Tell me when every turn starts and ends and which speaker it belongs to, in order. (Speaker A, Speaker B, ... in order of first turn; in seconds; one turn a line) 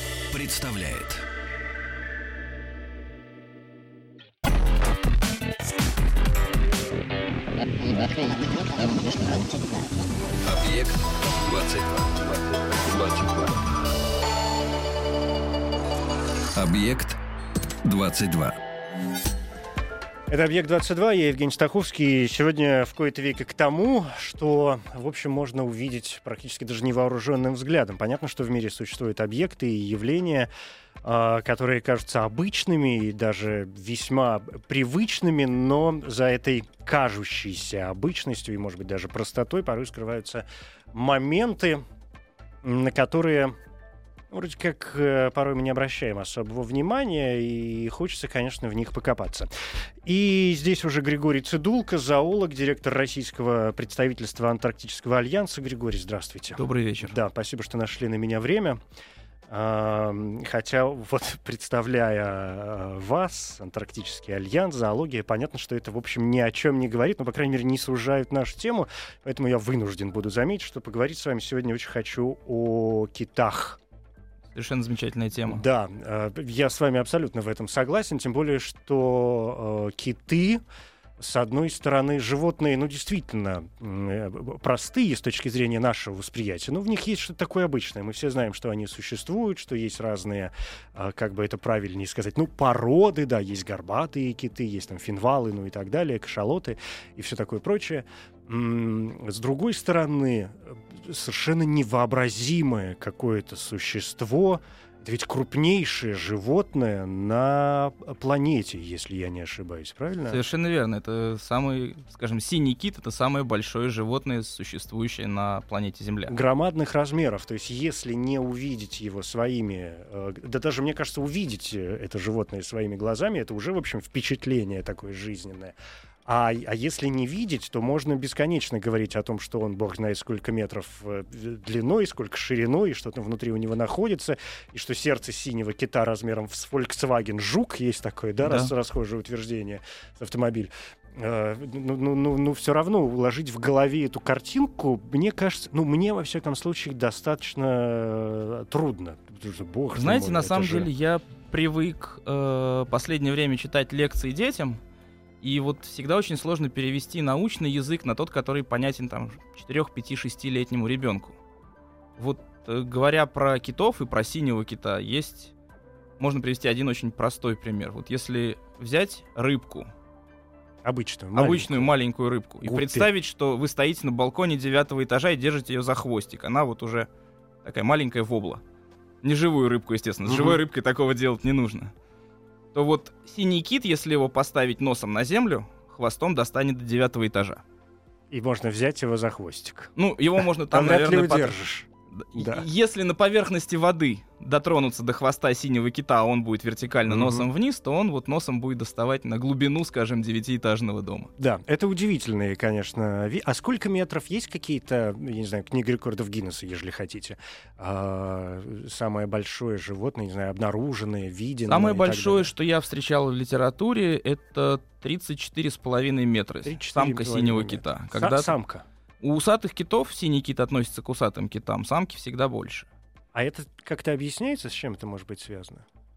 Speaker A: 0.3-1.2
Speaker A: 10.4-13.6
Speaker A: 16.6-17.2
Speaker A: 17.8-18.6
Speaker B: 20.3-30.5
Speaker B: 31.0-41.8
Speaker B: 42.6-43.5
Speaker B: 44.3-49.5
Speaker B: 50.0-58.8
Speaker C: 56.6-57.1
Speaker B: 59.5-73.8
Speaker C: 74.5-75.6
Speaker B: 75.5-80.6
Speaker B: 81.2-110.4
Speaker C: 110.3-116.4
Speaker B: 116.3-150.9
Speaker C: 138.4-138.7
Speaker C: 149.9-154.8
Speaker C: 155.4-161.4
Speaker C: 162.2-165.5
Speaker C: 166.2-169.9
Speaker B: 170.8-171.9
Speaker C: 171.3-177.1
Speaker B: 172.6-173.1
Speaker C: 177.6-178.6
Speaker C: 179.2-181.9
Speaker B: 180.2-180.6
Speaker C: 182.7-187.6
Speaker B: 188.3-192.7
Speaker C: 190.0-191.6
Speaker C: 192.2-201.3
Speaker B: 197.1-197.5
Speaker B: 201.4-212.5
Speaker C: 211.7-218.5
Speaker B: 216.7-218.8
Speaker C: 219.2-222.9
Speaker B: 223.3-225.8